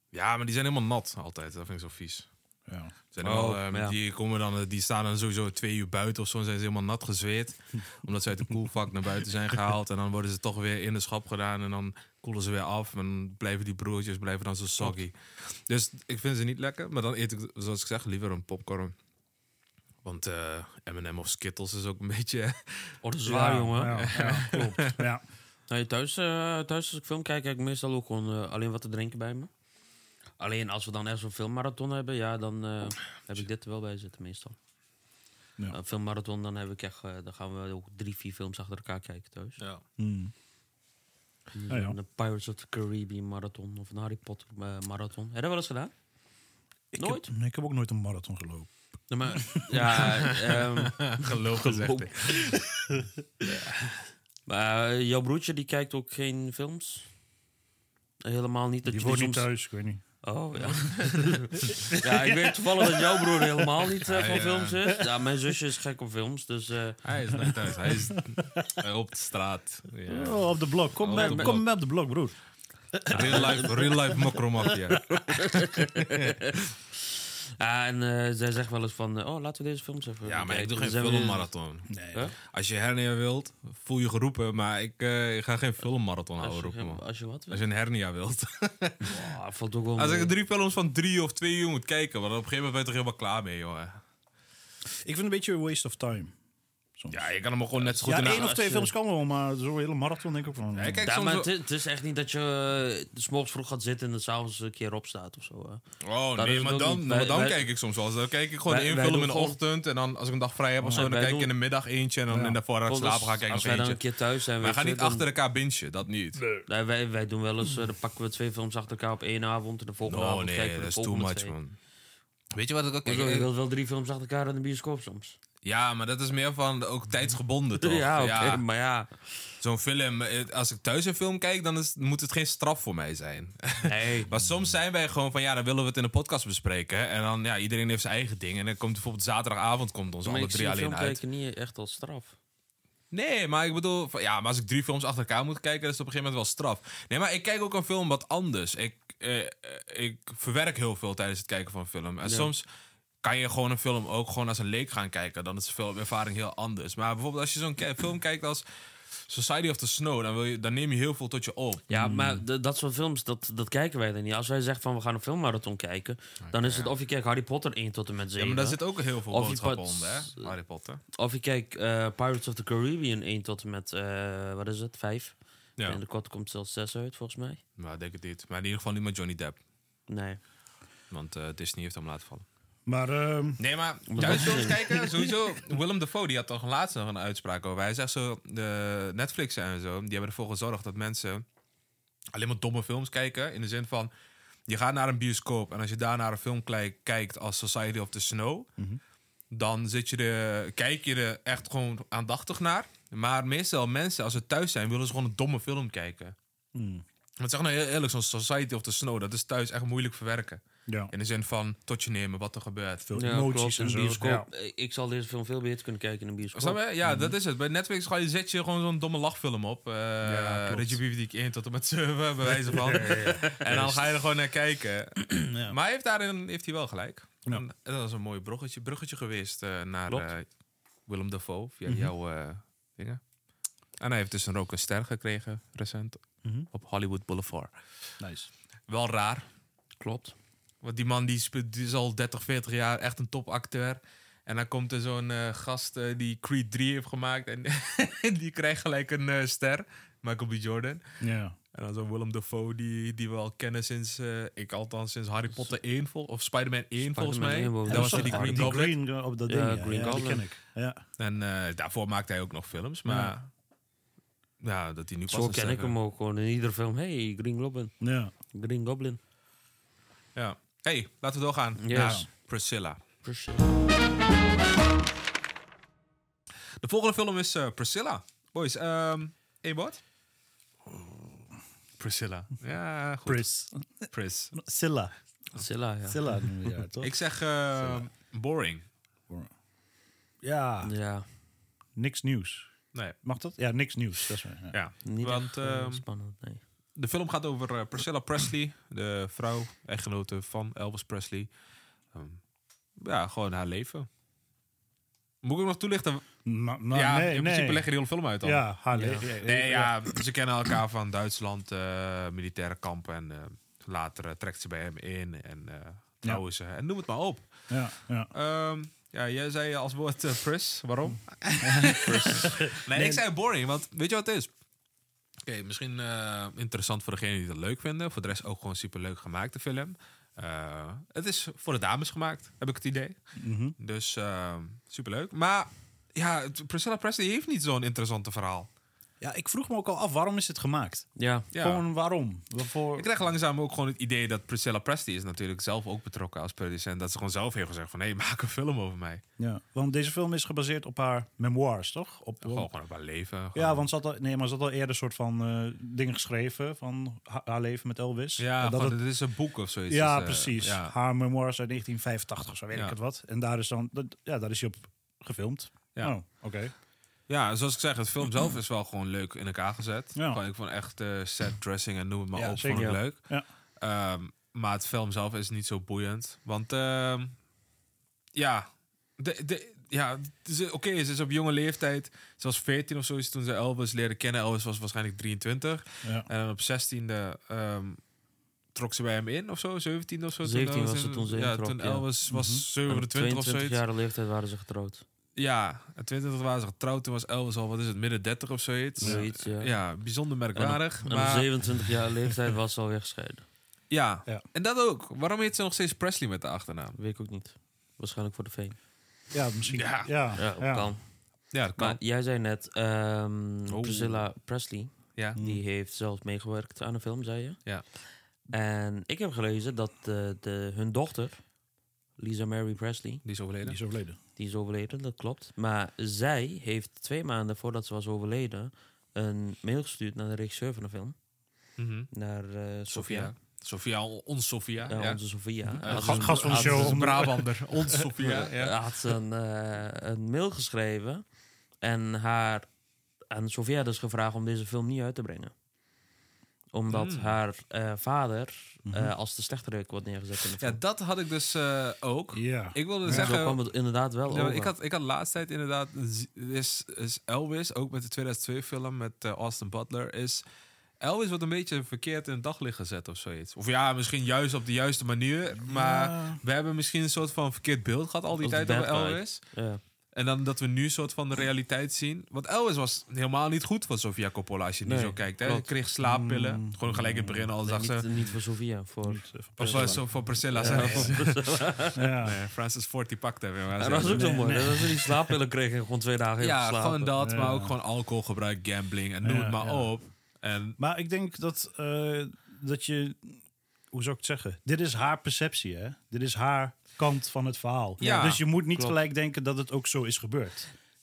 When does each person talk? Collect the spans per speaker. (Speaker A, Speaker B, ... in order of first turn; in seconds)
Speaker A: 0.1-2.3, 3.1-18.9, 20.0-22.9, 23.9-25.0, 49.9-52.6, 53.5-53.9, 64.0-64.8, 67.0-70.5, 71.0-71.6, 73.1-76.6, 80.2-89.3, 90.0-94.0, 97.1-98.5, 100.7-101.5, 106.0-114.0, 114.6-116.4, 120.0-121.8, 122.5-123.5, 125.6-128.6, 129.6-141.2, 143.1-152.7, 153.2-158.6, 159.2-161.9, 166.4-166.9, 168.3-171.0, 177.8-179.6, 181.1-182.4, 183.6-191.4, 192.3-194.1, 194.7-198.7, 199.5-206.3, 207.4-213.1, 216.5-230.5, 231.1-233.2, 234.0-237.7, 238.9-239.5, 240.8-251.2, 251.7-258.9, 261.2-263.5, 264.6-265.9, 270.3-273.0, 276.8-280.0, 282.0-283.5, 284.1-284.5, 287.0-288.9, 294.7-296.0, 296.9-301.5, 302.1-302.4, 303.0-304.1, 305.4-306.2, 306.9-308.6, 309.2-317.7, 318.3-324.5, 325.4-333.2, 333.8-338.7, 341.5-341.8, 342.9-349.2, 352.4-353.9, 358.4-360.9, 367.3-373.2, 373.8-377.4, 378.3-388.0, 388.7-393.8, 395.4-401.5, 403.9-407.0, 409.7-410.1, 411.5-412.0, 413.7-414.2, 423.2-423.8, 431.8-432.1, 432.9-435.2, 435.8-438.7, 446.9-447.4, 450.6-453.6, 454.3-460.4, 461.0-469.4, 470.1-478.1, 479.6-481.6, 482.2-484.5, 486.4-490.8, 498.0-498.4
Speaker B: 2.7-2.9, 23.2-25.2, 40.0-40.3, 41.7-42.0, 46.9-48.7, 49.3-50.0, 58.9-60.0, 61.7-63.6, 67.8-68.7, 70.1-72.3, 72.9-73.8, 81.9-82.3, 95.0-96.3, 97.0-97.2, 97.9-101.1, 112.3-112.6, 161.9-162.4, 182.8-183.6, 184.2-184.7, 206.7-207.0, 210.9-211.1, 213.1-214.5, 217.0-217.3, 220.2-221.0, 222.7-223.4, 225.5-225.8, 236.4-236.7, 238.2-238.5, 251.2-251.6, 257.9-261.0, 263.1-263.3, 268.0-268.3, 272.0-272.2, 283.2-285.1, 286.0-287.1, 287.8-288.1, 290.4-290.9, 291.9-292.7, 293.2-294.8, 306.4-307.9, 308.4-310.1, 317.7-318.3, 321.6-323.2, 333.4-333.8, 339.2-343.1, 349.4-352.7, 353.5-359.0, 359.9-366.7, 370.1-370.4, 372.3-373.4, 386.0-386.3, 392.3-392.6, 409.3-410.9, 415.4-415.6, 423.6-424.2, 435.8-437.5, 448.9-449.1, 452.3-453.4, 465.6-466.4, 476.0-477.5, 479.0-481.2, 481.9-482.4, 484.1-485.3, 487.2-487.7, 489.2-489.9, 490.8-500.7
Speaker C: 3.2-4.0, 23.0-24.2, 25.7-29.5, 30.4-34.5, 35.7-39.6, 41.5-45.9, 47.0-47.3, 49.1-52.7, 54.5-57.1, 58.2-59.5, 60.2-67.0, 71.1-71.6, 73.1-74.2, 75.1-76.5, 77.6-81.5, 86.4-87.6, 89.0-90.3, 98.1-98.9, 101.0-105.8, 106.3-107.6, 108.7-109.6, 110.9-111.5, 112.8-115.3, 116.6-121.5, 123.0-125.4, 127.8-129.4, 133.8-134.3, 140.2-142.3, 152.2-152.5, 161.9-170.5, 171.1-177.6, 180.1-180.4, 184.1-185.0, 213.1-216.8, 222.9-224.0, 240.0-240.3, 257.1-258.9, 259.4-260.4, 265.3-267.9, 268.5-269.2, 271.8-272.3, 273.2-273.8, 285.5-286.4, 290.8-291.2, 295.0-296.6, 308.9-309.2, 322.0-322.6, 341.1-341.5, 372.7-373.0, 390.4-392.1, 392.9-395.0, 399.0-399.7, 400.5-403.4, 407.0-408.8, 410.4-411.0, 411.8-417.8, 418.5-421.4, 422.2-423.2, 424.4-431.1, 432.1-433.3, 434.9-437.2, 438.2-441.2, 441.8-442.6, 443.3-445.5, 446.7-450.8, 453.1-454.7, 468.4-469.8, 474.8-475.7, 477.6-482.0, 483.8-487.1, 498.0-499.0